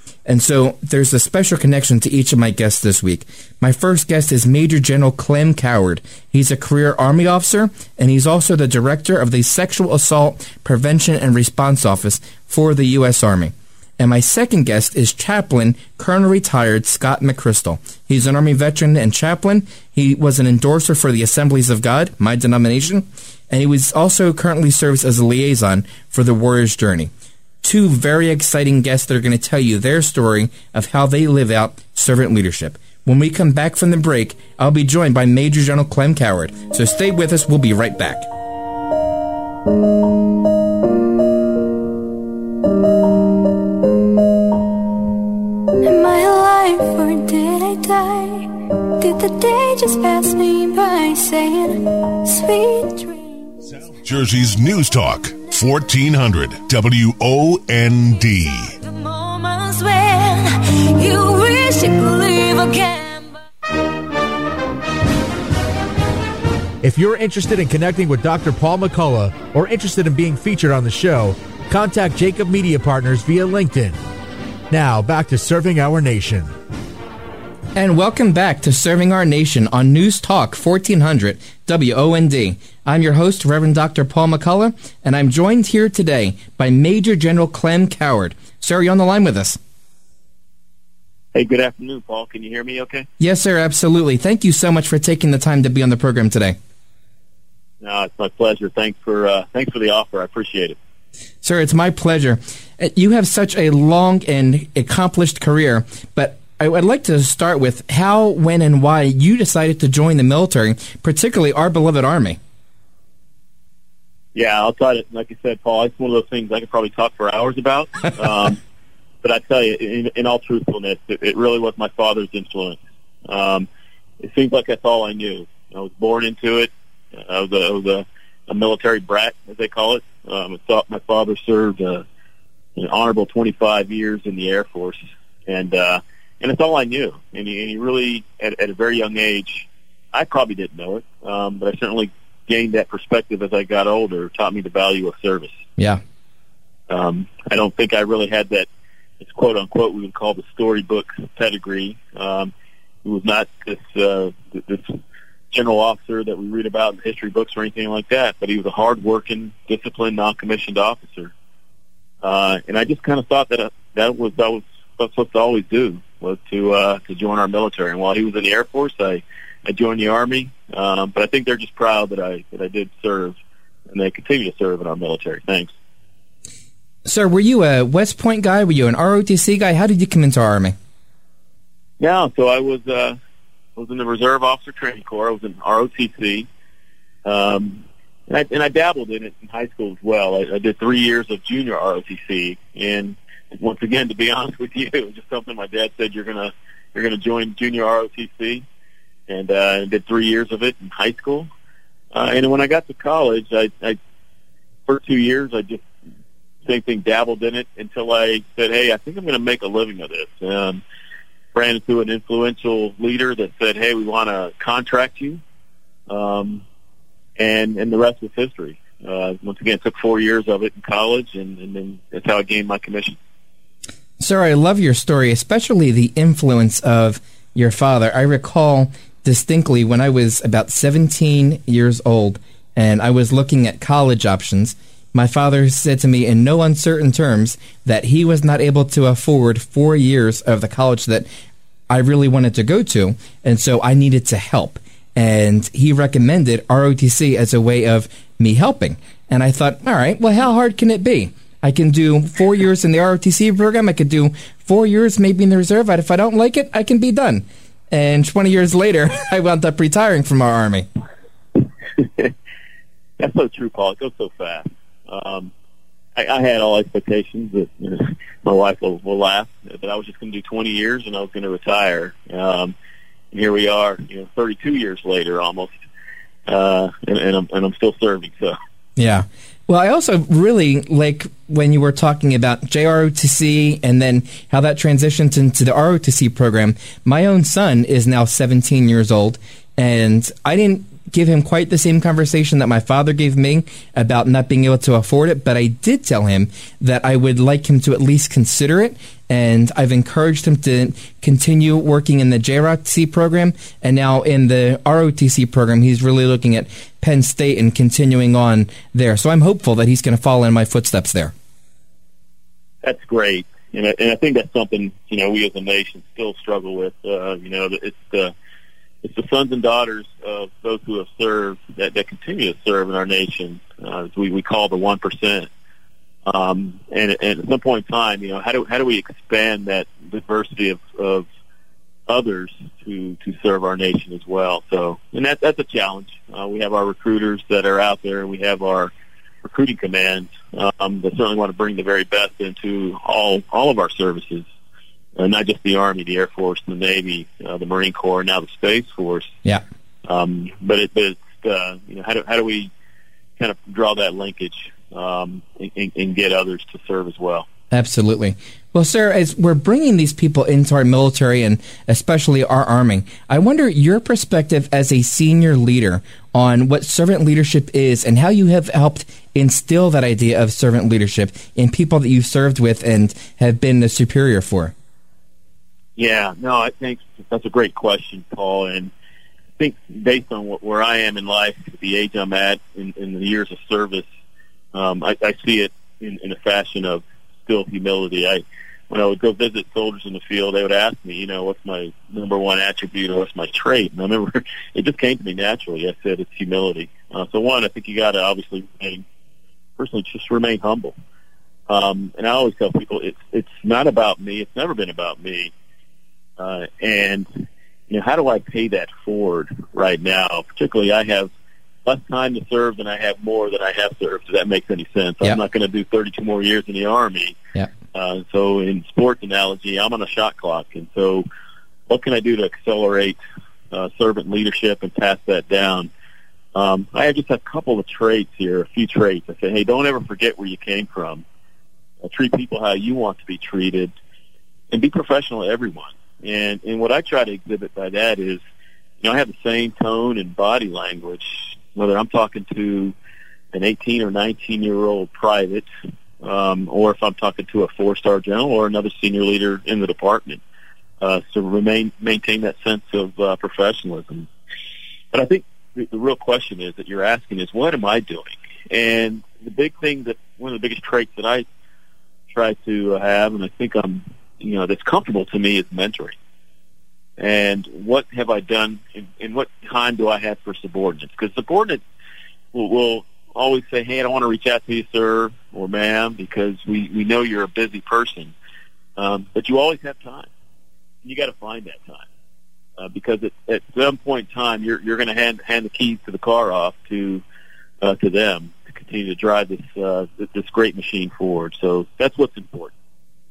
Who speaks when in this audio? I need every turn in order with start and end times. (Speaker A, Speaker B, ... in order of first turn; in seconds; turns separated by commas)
Speaker A: 0.2-27.1, Speaker A: 27.6-38.3, Speaker B: 45.8-53.6, Speaker C: 54.0-58.7, Speaker B: 58.8-63.4, Speaker D: 66.8-74.0, Speaker D: 74.7-76.5, Speaker A: 77.7-89.6, Speaker E: 91.3-93.1, Speaker A: 93.2-96.6, Speaker E: 97.8-100.8, Speaker A: 101.4-112.4, Speaker E: 114.3-118.6, Speaker E: 119.2-123.7, Speaker E: 124.2-132.0, Speaker E: 132.8-145.6, Speaker E: 146.9-148.7, Speaker E: 149.2-152.5, Speaker E: 153.0-155.0, Speaker E: 155.5-161.3, Speaker E: 162.2-173.3, Speaker E: 173.9-175.7, Speaker A: 177.1-180.8, Speaker E: 182.0-183.2, Speaker E: 183.8-186.5, Speaker E: 187.2-198.6, Speaker E: 199.3-201.5, Speaker E: 202.1-204.0, Speaker E: 204.9-205.8, Speaker E: 206.6-210.8, Speaker E: 211.5-215.4, Speaker E: 216.1-216.6, Speaker E: 217.4-223.2, Speaker A: 224.2-241.3, Speaker A: 241.9-260.9, Speaker E: 262.0-262.3, Speaker E: 263.2-265.5, Speaker E: 266.1-272.7, Speaker E: 273.3-275.7, Speaker E: 276.4-278.6, Speaker A: 279.0-311.3, Speaker E: 312.8-318.3, Speaker E: 319.0-325.5, Speaker E: 326.2-331.2, Speaker E: 332.1-338.9, Speaker E: 339.4-344.5, Speaker E: 345.2-349.3, Speaker E: 350.0-352.7, Speaker E: 353.4-357.5, Speaker A: 357.7-374.7, Speaker E: 376.0-378.9, Speaker E: 379.6-384.1, Speaker E: 384.7-399.0, Speaker E: 399.8-400.9, Speaker E: 401.7-405.5, Speaker E: 406.4-407.3, Speaker E: 407.9-411.3, Speaker E: 411.9-417.4, Speaker E: 417.9-421.2, Speaker E: 421.9-423.2, Speaker E: 423.7-425.9, Speaker E: 426.5-431.2, Speaker E: 432.0-433.9, Speaker E: 434.7-438.4, Speaker E: 439.0-442.9, Speaker E: 443.5-445.6, Speaker E: 446.2-450.4, Speaker E: 451.0-454.3, Speaker E: 455.1-461.4, Speaker E: 462.3-466.1, Speaker E: 467.2-471.8, Speaker E: 472.5-478.3, Speaker E: 479.0-480.3, Speaker E: 481.0-482.1, Speaker E: 482.8-487.2, Speaker E: 487.8-492.7